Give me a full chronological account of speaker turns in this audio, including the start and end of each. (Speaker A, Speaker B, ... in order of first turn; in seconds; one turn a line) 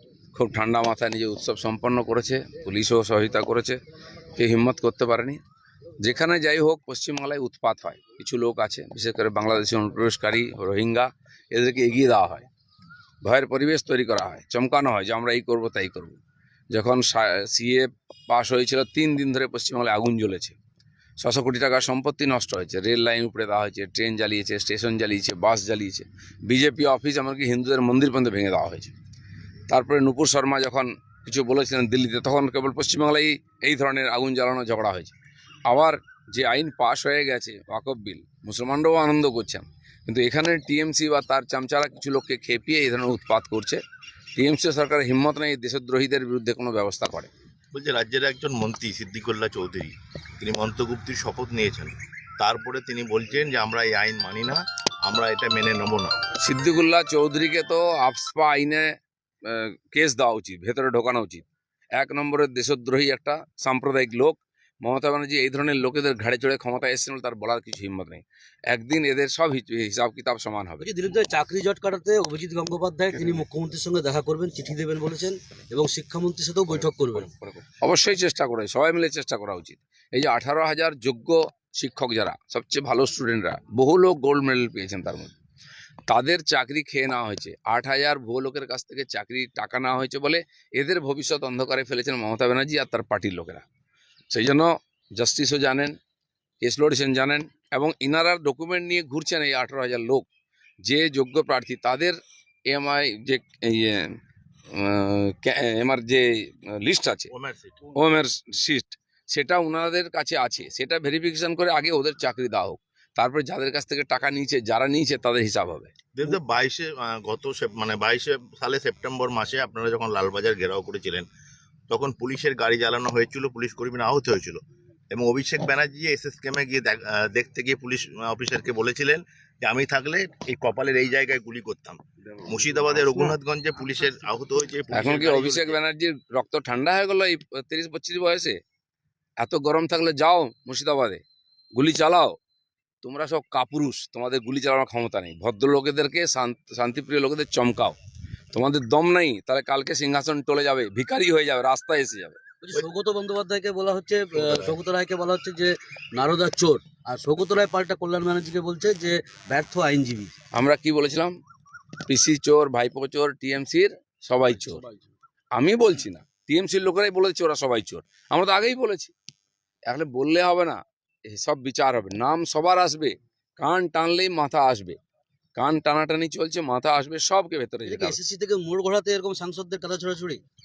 Speaker A: 0.3-3.8
Speaker A: 4.4-5.4
Speaker A: 6.0-12.4
Speaker A: 13.2-16.2
Speaker A: 16.7-20.6
Speaker A: 21.2-28.9
Speaker A: 29.7-35.1
Speaker A: 35.7-43.8
Speaker A: 44.4-47.3
Speaker B: 47.7-56.2
Speaker A: 56.4-58.9
Speaker A: 59.5-70.9
Speaker C: 70.8-77.3
Speaker A: 76.7-85.3
Speaker A: 86.1-93.7
Speaker A: 94.3-96.0
Speaker A: 96.6-100.2
Speaker A: 100.8-104.2
Speaker A: 104.7-107.3
Speaker B: 107.3-107.9
Speaker A: 107.9-115.9
Speaker B: 116.1-121.3
Speaker B: 121.9-124.6
Speaker B: 125.1-135.8
Speaker A: 134.9-138.6
Speaker A: 139.4-141.2
Speaker A: 141.8-142.4
Speaker A: 143.0-148.0
Speaker A: 148.5-152.4
Speaker C: 152.6-160.3
Speaker A: 160.5-161.4
Speaker A: 162.1-164.8
Speaker C: 164.6-165.1
Speaker A: 165.6-169.1
Speaker A: 169.9-175.0
Speaker A: 175.6-178.2
Speaker C: 177.8-180.4